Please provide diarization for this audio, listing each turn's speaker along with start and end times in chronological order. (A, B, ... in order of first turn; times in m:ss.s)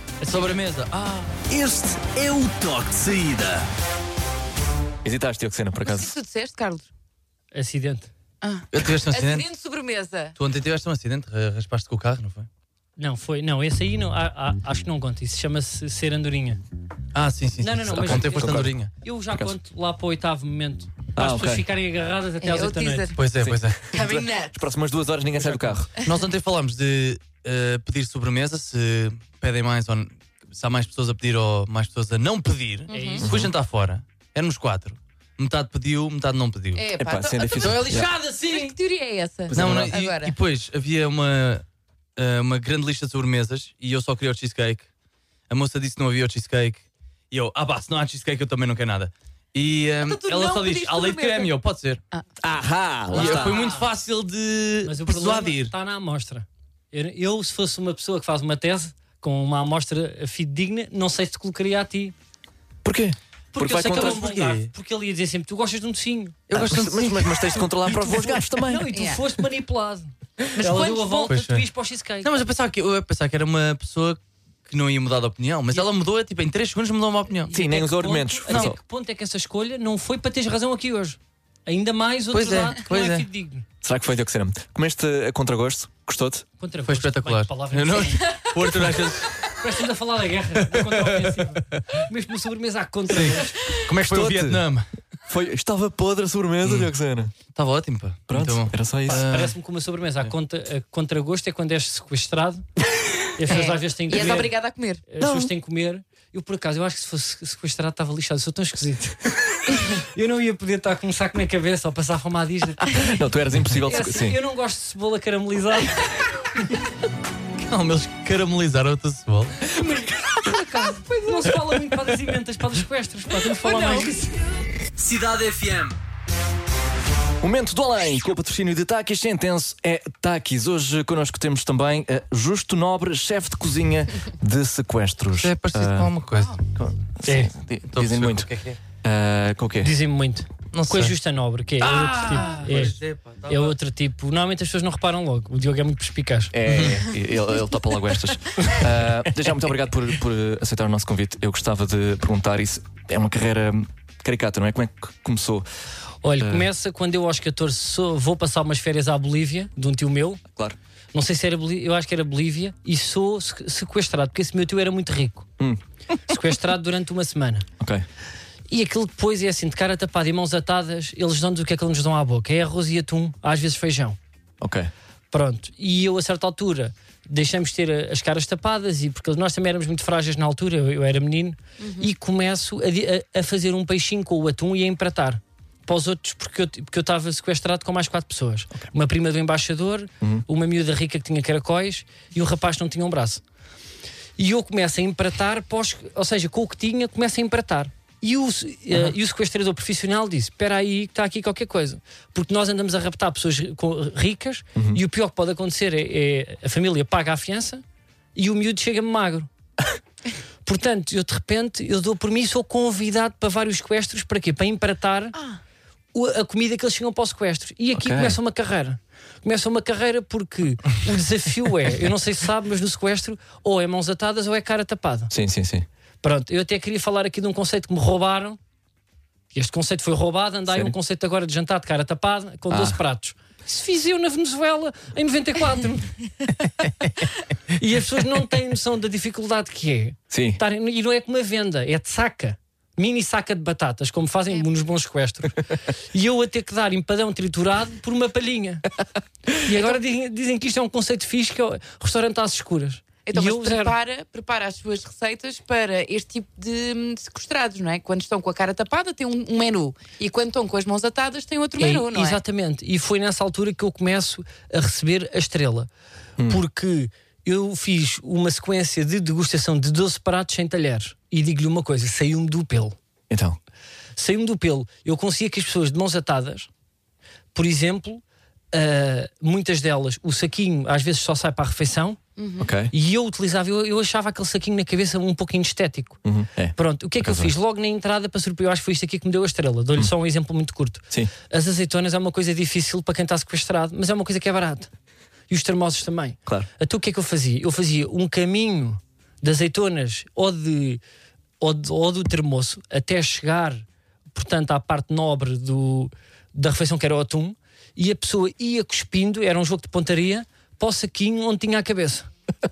0:00.2-0:00.6 A
0:00.3-0:01.3 B
0:01.5-0:03.7 C
0:05.0-0:06.2 D
0:05.8-0:06.9 E
0:07.5-0:08.1 A
0:08.4-0:10.4 E
0:08.7-0:09.4 B
0:10.4-0:12.5 B
0:13.0-0:16.6 A
0:17.1-0:18.9 B
0:17.6-0:23.1 A
0:17.9-0:18.7 D
0:19.3-0:19.6 D
0:21.2-0:21.6 D
0:22.4-0:23.2 E
0:23.2-0:24.0 B
0:23.5-0:25.9 D
0:23.9-0:24.6 E
0:25.4-0:36.8 B
0:32.9-0:33.3 E
0:32.9-0:33.3 A
0:33.2-0:33.5 D
0:36.7-0:40.4 E
0:37.0-0:38.1 D
0:37.5-0:38.7 B
0:39.5-0:39.9 D
0:39.5-0:41.6 B
0:42.2-0:44.9 B
0:45.5-0:52.0 B
0:50.0-0:51.5 E
0:52.4-0:53.7 D
0:53.1-0:55.7 B
0:53.2-0:53.8 A
0:54.8-1:02.1 A
1:02.8-1:04.2 D
1:03.5-1:06.4 A
1:03.7-1:04.7 B
1:06.5-1:07.6 B
1:06.5-1:08.9 D
1:08.3-1:12.4 A
1:08.9-1:09.2 E
1:10.6-1:11.3 E
1:10.7-1:11.7 B
1:12.2-1:17.5 B
1:17.5-1:18.8 D
1:17.5-1:23.6 A
1:18.5-1:18.7 B
1:22.3-1:23.2 B
1:23.8-1:26.4 D
1:26.6-1:28.8 A
1:26.8-1:29.6 B
1:29.4-1:33.7 A
1:30.7-1:31.6 B
1:33.1-1:34.9 B
1:33.9-1:34.6 D
1:35.2-1:37.3 D
1:36.6-1:36.9 B
1:37.5-1:39.5 B
1:38.3-1:39.2 D
1:39.0-1:42.6 A
1:43.4-1:44.5 A
1:43.5-1:45.0 E
1:45.1-1:53.0 A
1:45.2-1:45.5 D
1:52.9-1:54.4 D
1:53.8-1:56.2 A
1:57.6-1:59.6 B
1:59.7-2:04.3 A
2:05.0-2:05.9 C
2:07.4-2:16.1 D
2:15.4-2:16.6 B
2:16.7-2:18.5 D
2:17.2-2:17.5 A
2:17.9-2:18.8 B
2:19.0-2:19.9 D
2:19.8-2:22.9 A
2:20.7-2:21.1 B
2:21.8-2:23.8 B
2:23.5-2:26.5 A
2:26.5-2:35.6 D
2:26.7-2:27.1 B
2:36.2-2:40.4 A
2:36.4-2:36.7 D
2:41.1-2:45.5 A
2:46.3-2:47.6 A
2:48.7-2:54.2 A
2:54.6-2:54.9 D
2:55.3-3:13.4 A
3:01.8-3:02.1 E
3:14.4-3:27.8 A
3:28.3-3:29.5 A
3:30.6-3:35.4 A
3:36.1-3:45.3 A
3:37.9-3:38.4 D
3:45.3-3:45.8 D
3:46.2-3:48.6 A
3:49.5-3:56.2 A
3:50.7-3:50.9 D
3:52.7-3:53.0 D
3:57.7-4:08.8 A
4:00.3-4:00.6 D
4:09.6-4:13.9 A
4:13.2-4:22.4 E
4:21.8-4:25.9 A
4:26.4-4:33.0 A
4:33.3-4:33.6 D
4:34.2-4:36.7 A
4:37.5-4:42.2 A
4:42.4-4:42.7 E
4:42.6-4:42.9 D
4:42.9-4:46.2 A
4:46.2-4:47.5 D
4:46.7-4:54.9 A
4:55.5-5:01.0 A
5:01.6-5:12.3 A